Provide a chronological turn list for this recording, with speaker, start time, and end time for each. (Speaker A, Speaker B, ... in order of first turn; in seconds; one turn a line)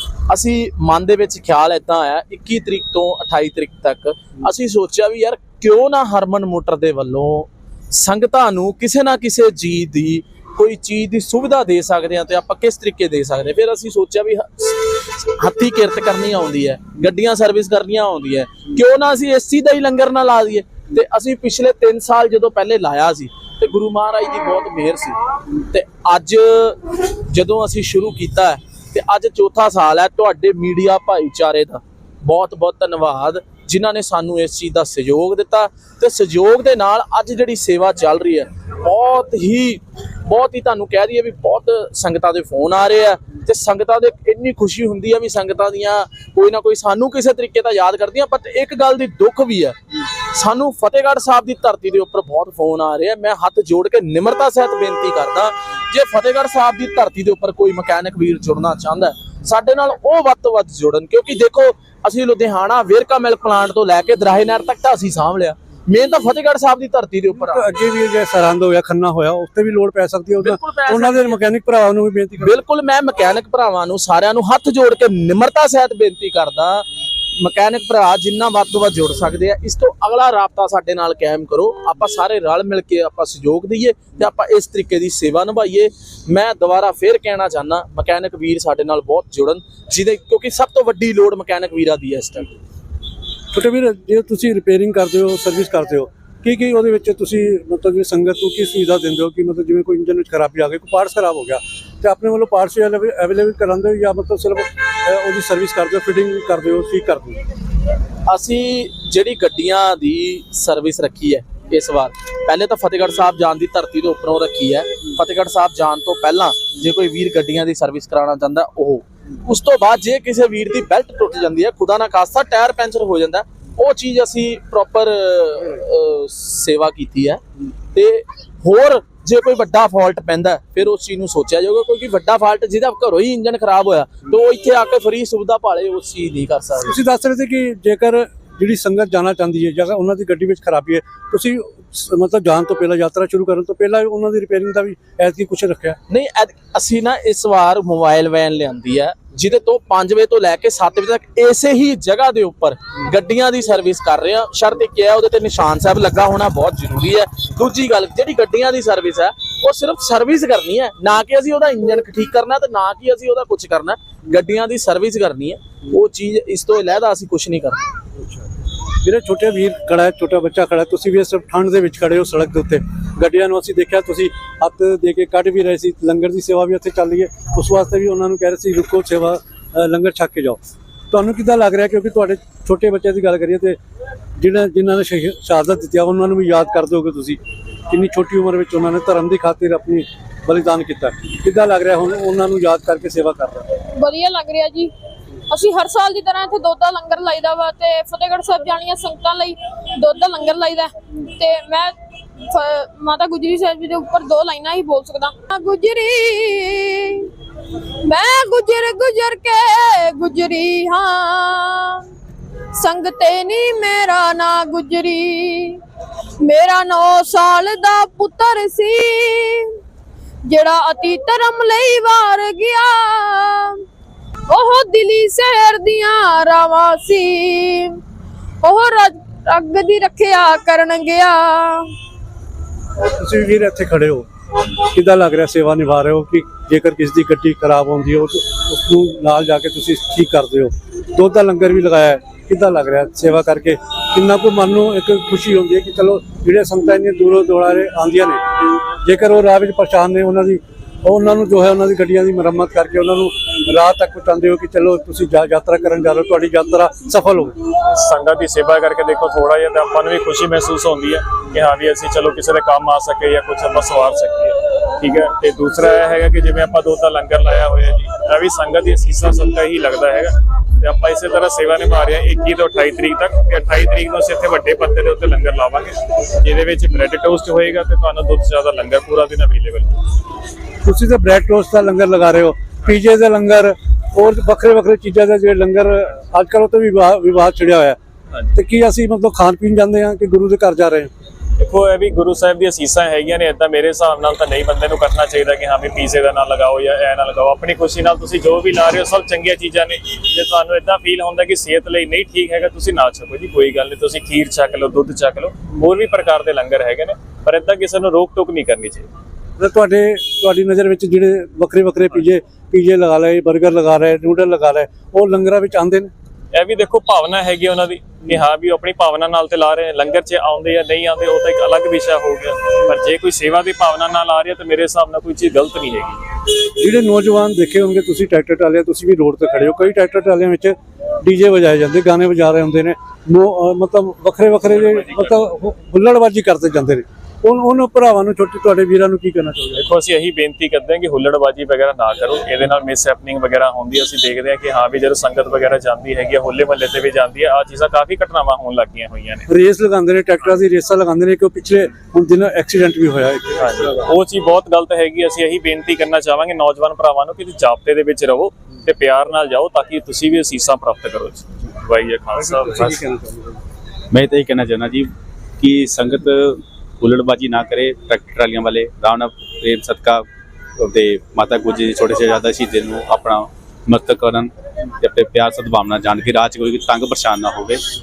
Speaker A: 0.3-67.7
Speaker B: 67.3-72.6
Speaker A: 70.4-71.4
Speaker A: 72.4-92.5
Speaker B: 93.5-107.4
Speaker A: 108.3-127.4
Speaker A: 127.9-136.9
Speaker B: 136.8-146.0
Speaker A: 146.1-167.8
Speaker B: 169.0-180.6
Speaker B: 181.1-183.8
Speaker B: 184.4-193.6
Speaker C: 193.9-194.9
Speaker C: 195.5-207.3
Speaker C: 208.0-212.1
Speaker C: 212.7-215.8
Speaker C: 216.4-219.8
Speaker C: 220.4-223.8
Speaker C: 224.5-228.0
Speaker C: 228.6-231.9
Speaker B: 233.0-257.5
Speaker D: 257.9-280.0
Speaker B: 280.8-288.0
Speaker B: 288.5-291.1
Speaker D: 291.6-309.1
Speaker B: 309.6-316.1
Speaker D: 316.5-326.2
Speaker B: 326.8-339.9
Speaker D: 334.7-335.4
Speaker D: 339.8-349.4
Speaker B: 349.5-354.1
Speaker D: 353.6-363.0
Speaker B: 362.4-363.6
Speaker E: 364.1-370.2
Speaker E: 370.8-377.8